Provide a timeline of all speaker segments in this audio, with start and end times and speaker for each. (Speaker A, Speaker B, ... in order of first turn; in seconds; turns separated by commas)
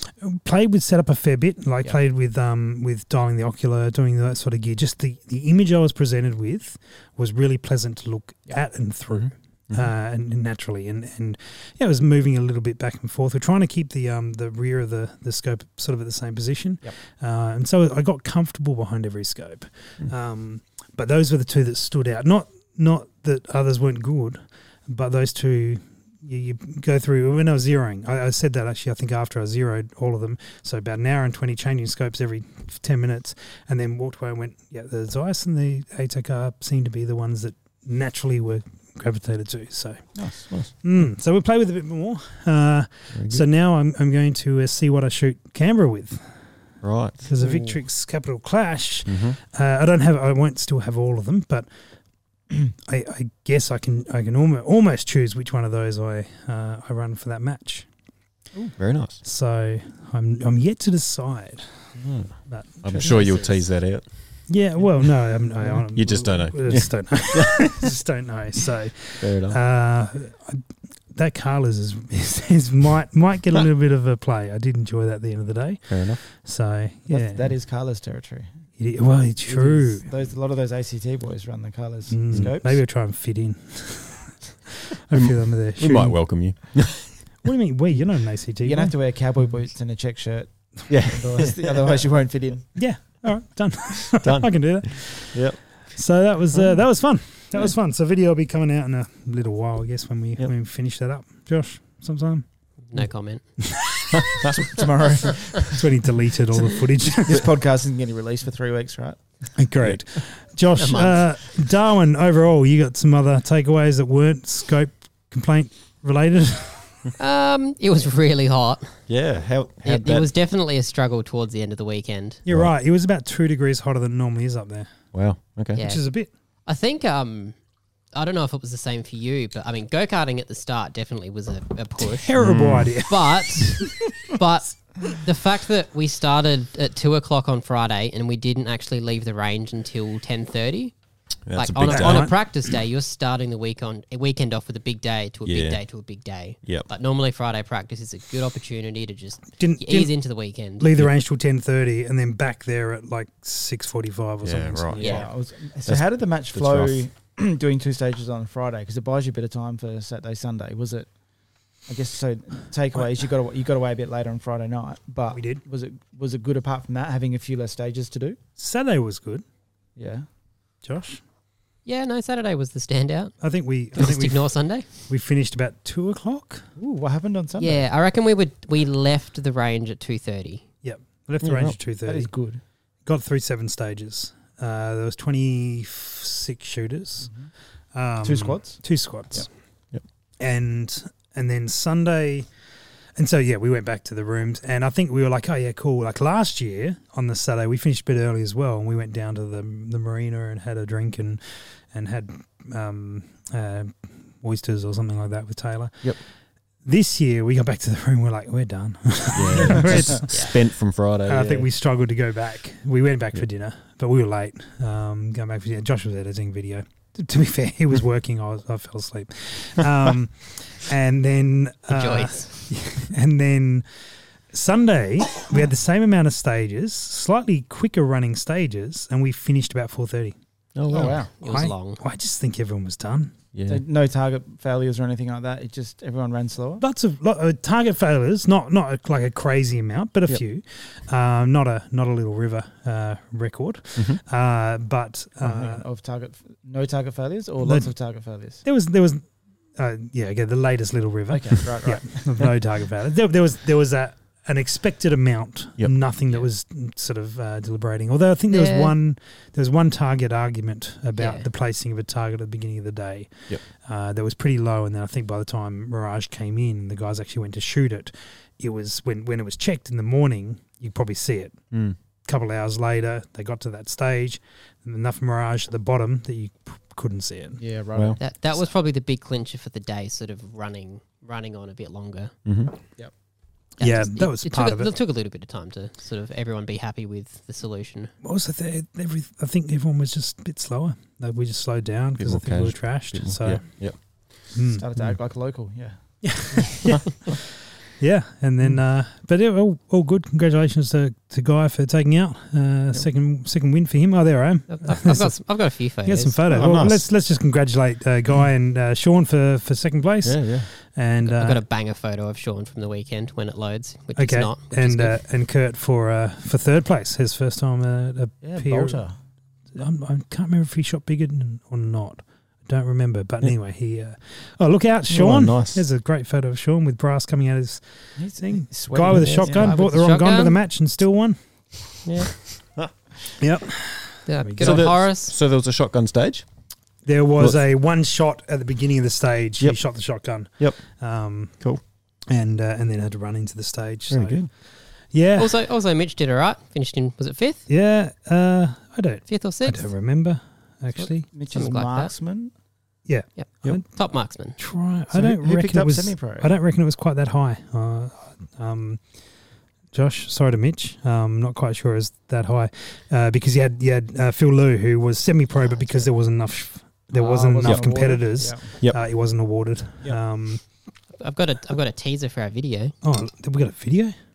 Speaker A: 0.2-40.1, Speaker B: 9.1-9.8, Speaker C: 40.1-40.5, Speaker A: 40.8-46.3, Speaker B: 43.1-43.4, Speaker B: 46.8-47.2, Speaker A: 47.2-51.7, Speaker C: 47.4-47.7, Speaker B: 49.0-49.4, Speaker A: 52.7-57.9, Speaker B: 58.6-59.2, Speaker A: 59.2-61.9, Speaker B: 62.0-64.2, Speaker A: 62.5-63.5, Speaker A: 64.5-77.5, Speaker B: 65.9-67.9, Speaker B: 69.2-69.6, Speaker B: 75.9-76.2, Speaker C: 77.1-78.5, Speaker A: 78.8-80.0, Speaker C: 79.5-82.8, Speaker A: 82.1-84.4, Speaker A: 85.0-86.2, Speaker B: 85.1-87.1, Speaker A: 87.4-88.9, Speaker C: 88.6-92.7, Speaker B: 90.9-92.0, Speaker A: 92.7-102.4, Speaker B: 94.1-95.6, Speaker D: 102.9-103.4, Speaker A: 103.6-104.1, Speaker B: 104.1-104.5, Speaker C: 104.5-105.8, Speaker A: 105.7-107.5, Speaker C: 107.2-109.3, Speaker A: 109.5-117.0, Speaker D: 110.8-111.2, Speaker D: 117.2-119.0, Speaker B: 119.1-120.3, Speaker D: 119.8-122.4, Speaker A: 122.4-124.9, Speaker B: 125.1-125.8, Speaker A: 125.7-126.3, Speaker D: 125.7-126.1, Speaker D: 126.7-127.5, Speaker D: 128.1-132.4, Speaker A: 132.0-134.0, Speaker B: 132.4-132.9, Speaker D: 133.0-140.9, Speaker B: 141.5-142.5, Speaker D: 141.5-151.0, Speaker A: 141.8-142.3, Speaker B: 145.4-145.8, Speaker A: 149.6-150.1, Speaker A: 150.8-155.2, Speaker B: 154.4-155.2, Speaker C: 155.0-161.1, Speaker D: 155.0-155.3, Speaker B: 155.8-157.0, Speaker C: 161.8-168.4, Speaker A: 165.3-165.6, Speaker A: 168.6-169.4, Speaker C: 169.9-170.3, Speaker A: 170.8-171.2, Speaker D: 171.8-173.3, Speaker A: 173.4-176.7, Speaker D: 173.9-174.9, Speaker C: 176.8-177.8, Speaker D: 177.6-180.7, Speaker A: 180.8-182.3, Speaker B: 181.4-181.8, Speaker C: 181.8-182.6, Speaker A: 183.1-187.3, Speaker C: 187.2-187.5, Speaker A: 187.9-189.5, Speaker C: 188.2-189.5, Speaker A: 190.4-192.5, Speaker A: 193.2-206.2, Speaker A: 206.8-210.7, Speaker B: 209.3-211.7, Speaker C: 209.6-210.2, Speaker A: 211.2-223.8, Speaker D: 221.9-222.7, Speaker A: 224.5-230.3, Speaker B: 230.7-231.2, Speaker C: 230.9-231.3, Speaker D: 230.9-232.0, Speaker A: 231.4-233.3, Speaker B: 233.5-233.8, Speaker C: 233.7-236.8, Speaker A: 236.8-245.8, Speaker C: 245.4-248.6, Speaker A: 247.6-247.9, Speaker A: 248.6-271.6, Speaker C: 251.3-252.4, Speaker D: 258.5-258.9, Speaker D: 261.1-261.4, Speaker A: 272.2-277.6, Speaker C: 277.6-278.2, Speaker B: 277.9-278.2, Speaker D: 278.2-282.3, Speaker B: 282.4-282.7, Speaker A: 283.8-284.9, Speaker D: 283.8-288.1, Speaker A: 288.2-293.9, Speaker B: 292.2-295.2, Speaker A: 294.5-294.8, Speaker C: 294.8-296.6, Speaker A: 296.2-297.1, Speaker A: 298.0-311.6, Speaker D: 304.7-306.4, Speaker B: 306.5-307.1, Speaker B: 310.2-310.7, Speaker D: 311.2-315.2, Speaker A: 314.2-319.0, Speaker C: 318.4-319.2, Speaker A: 319.7-331.4, Speaker B: 325.1-325.8, Speaker C: 328.1-329.7, Speaker D: 329.1-330.6, Speaker B: 332.0-332.9, Speaker A: 333.4-334.9, Speaker D: 334.2-335.3, Speaker B: 334.6-336.4, Speaker A: 337.0-341.6, Speaker B: 339.6-339.9, Speaker B: 340.5-340.8, Speaker A: 342.3-344.5, Speaker B: 344.1-344.5, Speaker A: 345.1-345.6, Speaker D: 345.4-347.6, Speaker A: 347.7-351.3, Speaker D: 349.3-349.9, Speaker C: 350.9-352.5, Speaker D: 351.5-352.1, Speaker A: 353.1-354.0, Speaker D: 353.4-354.6, Speaker A: 354.6-359.0, Speaker C: 355.1-356.5, Speaker A: 359.9-370.6, Speaker C: 367.1-368.7, Speaker B: 367.6-368.1, Speaker D: 371.1-372.9, Speaker A: 373.0-374.1